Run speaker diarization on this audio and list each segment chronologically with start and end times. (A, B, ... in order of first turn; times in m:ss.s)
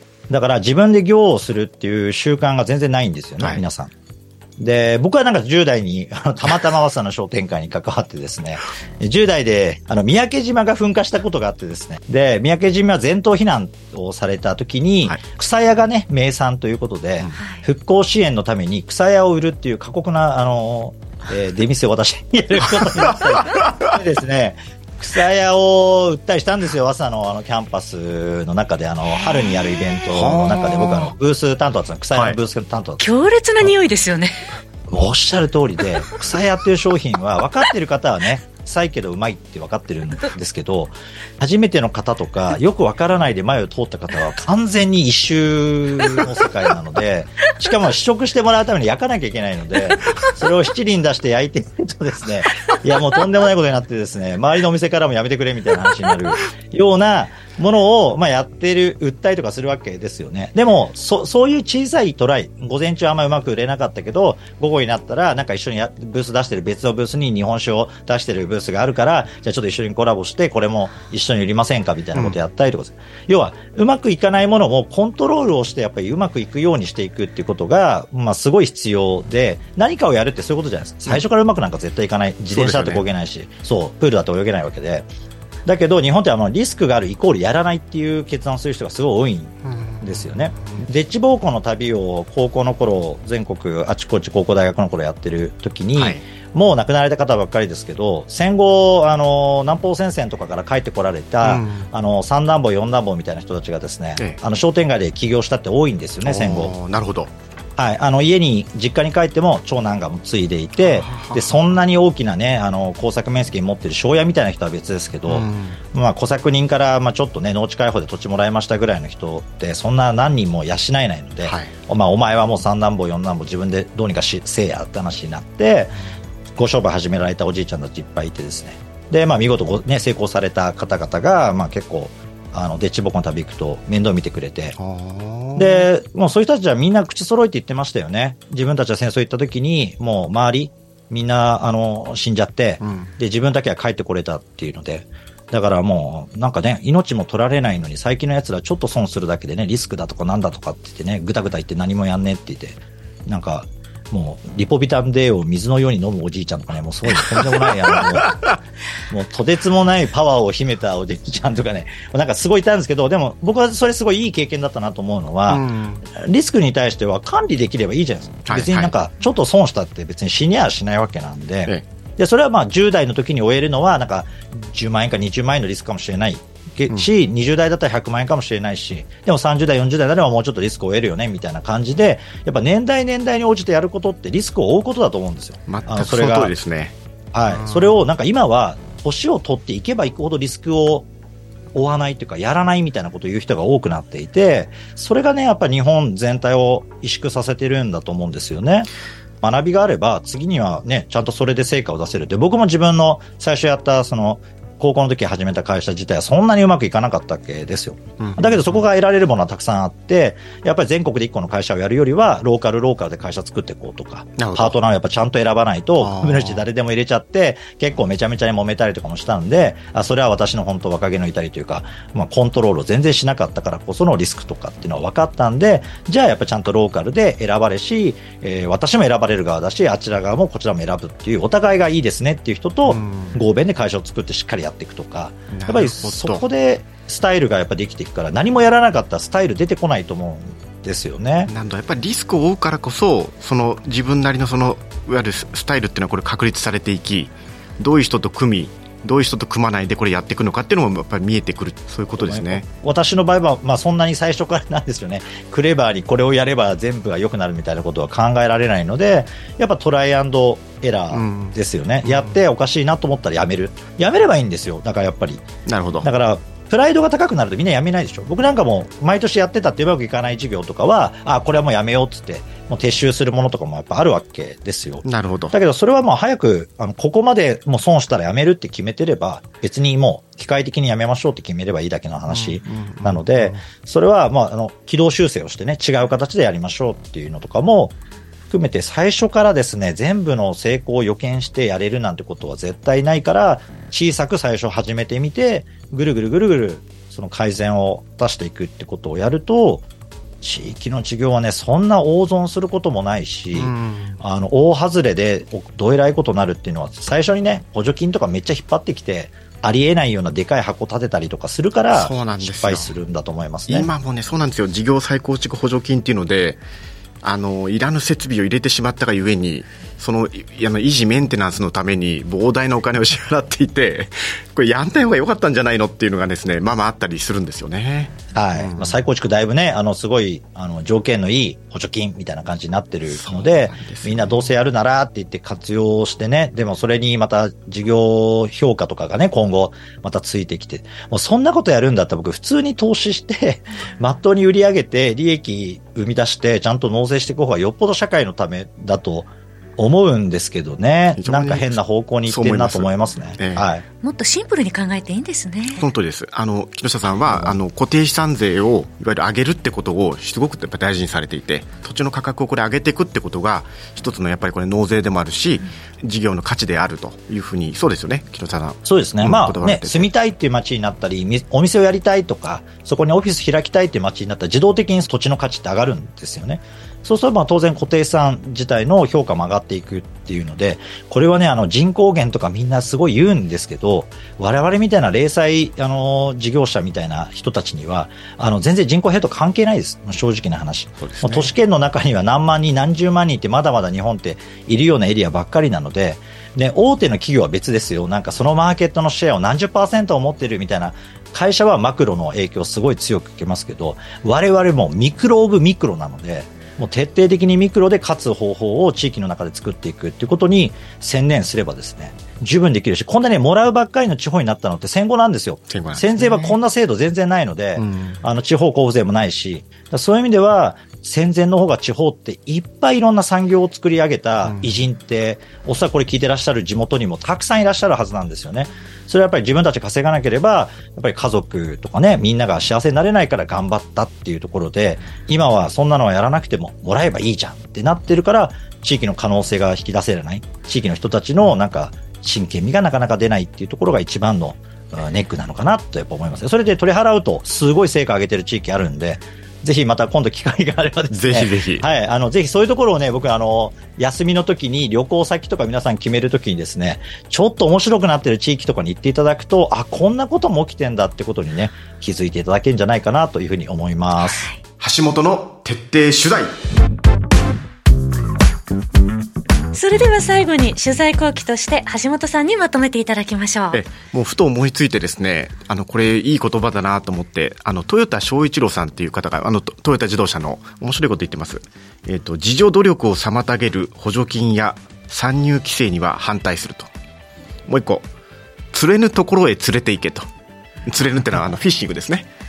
0:00.3-0:03.9 A
0:04.6-0:33.0 A
0:17.4-0:17.6 B
0:22.8-0:24.0 C
0:30.1-0:31.1 C
0:33.0-0:34.5 B
0:34.9-1:25.1 A
1:22.5-1:23.0 C
1:25.6-1:46.7 A
1:29.6-1:30.8 C
1:36.0-1:36.2 C
1:41.4-1:41.9 C
1:46.2-1:47.3 C
1:47.8-2:06.0 A
1:50.8-1:51.5 C
1:55.3-1:55.8 C
2:01.4-2:01.7 C
2:06.6-2:14.8 A
2:14.8-2:15.9 C
2:15.5-2:38.4 A
2:22.8-2:23.1 C
2:37.9-2:38.6 C
2:39.1-3:06.5 A
2:45.5-2:46.0 C
2:48.4-2:48.9 C
3:05.7-3:07.0 C
3:07.3-3:11.1 A
3:07.5-3:07.9 C
3:11.7-3:18.9 A
3:19.4-4:01.5 A
3:28.2-3:28.8 C
3:34.4-3:34.7 C
3:36.0-3:36.6 C
3:52.9-3:53.4 C
3:55.5-3:56.4 C
4:01.5-4:12.6 C
4:12.2-4:25.4 A
4:21.1-4:22.4 C
4:25.6-4:26.1 C
4:26.0-4:47.9 A
4:35.0-4:35.5 C
4:42.3-4:43.6 C
4:48.5-4:59.8 A
5:00.4-5:13.9 A
5:03.5-5:04.2 C
5:11.9-5:12.9 C
5:13.7-5:16.6 C
5:17.2-5:29.0 C
5:28.3-5:53.8 A
5:33.1-5:34.5 C
5:51.1-5:53.7 C
5:54.0-5:55.9 B
5:55.8-6:10.1 C
5:57.3-5:57.5 A
6:08.8-7:44.5 A
6:31.0-6:31.5 C
6:55.7-6:56.6 C
6:57.8-6:58.2 C
7:04.4-7:04.8 C
7:31.1-7:31.8 C
7:44.8-7:46.6 C
7:49.7-7:53.8 B
7:53.7-8:06.9 C
8:07.7-8:08.1 C
8:08.7-8:10.3 C
8:10.8-8:12.3 C